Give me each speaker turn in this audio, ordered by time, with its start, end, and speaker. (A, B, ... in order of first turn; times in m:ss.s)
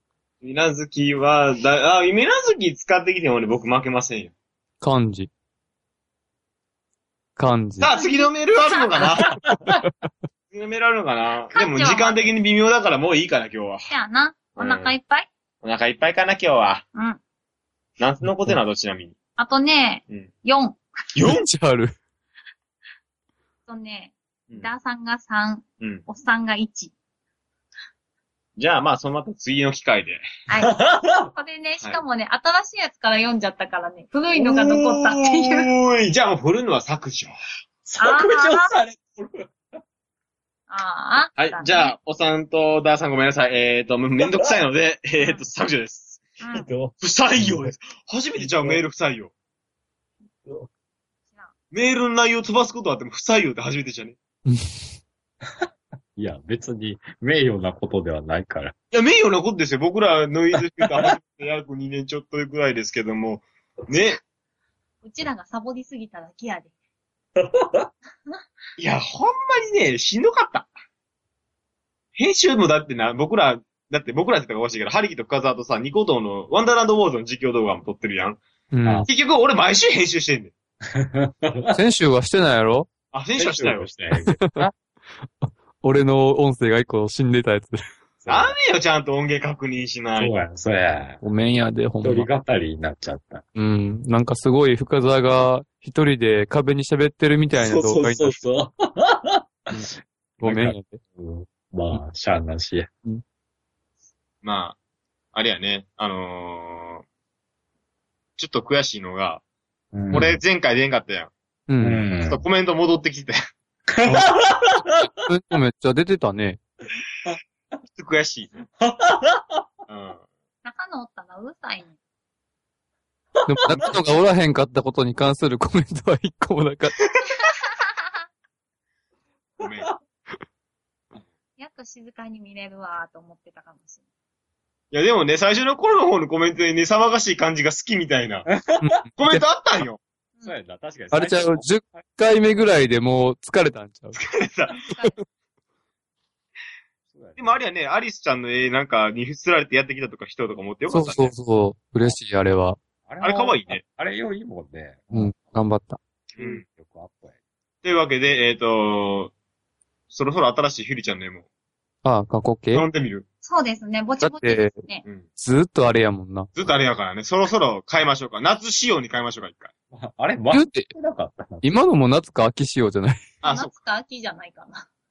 0:00.4-0:04.3 A
0:04.8-0:05.3 B
0:07.4-0:07.9 B
0:07.8-0:09.3 A
0:07.9-0:09.0 C
0:09.3-0:09.8 D
0:09.5-0:09.9 B
0:10.5-0:13.9 A
0:11.5-0:12.3 C
0:13.9-0:15.3 C
0:14.6-0:14.9 A
0:15.6-0:16.8 A
0:16.9-0:17.2 C
0:18.0-0:19.2 A
0:19.4-0:20.8 C
0:21.1-0:21.5 A
0:21.2-0:21.9 B
0:23.7-0:26.9 C
0:28.6-0:30.2 A
0:30.5-0:35.7 C
0:30.6-0:31.3 D
0:34.3-0:37.3 A
0:37.8-0:39.8 D
0:38.0-0:38.7 C
0:40.7-0:41.9 C
0:41.4-0:46.2 A
0:45.2-0:45.4 C
0:46.4-0:46.7 C
0:46.5-0:47.7 D
0:47.0-0:49.3 A
0:48.4-0:48.8 D
0:51.7-0:54.2 A
0:55.4-0:58.7 D
0:58.9-1:04.2 A
1:05.0-1:06.7 C
1:07.4-1:07.9 D
1:08.8-1:10.7 A
1:12.2-1:18.4 A
1:18.7-1:19.1 B
1:18.8-1:19.1 D
1:19.1-1:20.5 A
1:20.9-1:21.8 D
1:21.7-1:22.9 B
1:23.1-1:23.9 A
1:23.4-1:24.7 D
1:24.3-1:24.7 B
1:25.4-1:27.8 B
1:28.2-1:28.5 D
1:28.3-1:30.4 A
1:30.2-1:31.2 D
1:31.2-1:32.3 B
1:32.0-1:33.4 D
1:33.6-1:38.4 B
1:37.5-1:39.8 D
1:39.7-1:41.0 B
1:40.4-1:42.9 D
1:44.4-1:44.8 A
1:45.3-1:47.0 A
1:48.4-1:49.4 A
1:49.9-1:50.4 D
1:50.1-1:51.3 A
1:51.7-1:52.0 B
1:51.8-1:52.4 D
1:52.2-1:53.4 A
1:53.9-1:55.1 D
1:55.2-1:56.6 B
1:57.9-1:58.5 A
1:58.8-1:59.6 D
1:59.9-2:00.2 A
2:00.6-2:02.0 C
2:03.4-2:03.9 D
2:03.4-2:07.0 B
2:07.8-2:08.1 C
2:09.6-2:09.9 A
2:11.6-2:14.0 C
2:14.9-2:18.5 A
2:18.5-2:18.9 D
2:18.8-2:19.4 B
2:19.2-2:20.0 A
2:20.4-2:22.0 D
2:21.1-2:24.2 B
2:24.1-2:24.8 A
2:24.8-2:25.2 C
2:27.1-2:27.6 D
2:27.4-2:31.3 A
2:30.9-2:32.8 B
2:33.1-2:35.6 D
2:33.2-2:33.8 A
2:35.1-2:36.0 B
2:36.3-2:37.3 D
2:36.4-2:36.6 A
2:37.8-2:39.3 A
2:40.1-2:41.4 A
2:42.0-2:42.8 B
2:42.7-2:43.2 A
2:43.4-2:45.0 C
2:44.2-2:44.7 B
2:45.4-2:46.5 B
2:46.5-2:49.7 A
2:49.9-2:51.8 D
2:50.5-2:50.9 B
2:51.6-2:53.2 B
2:53.4-2:53.7 A
2:53.4-2:54.8 C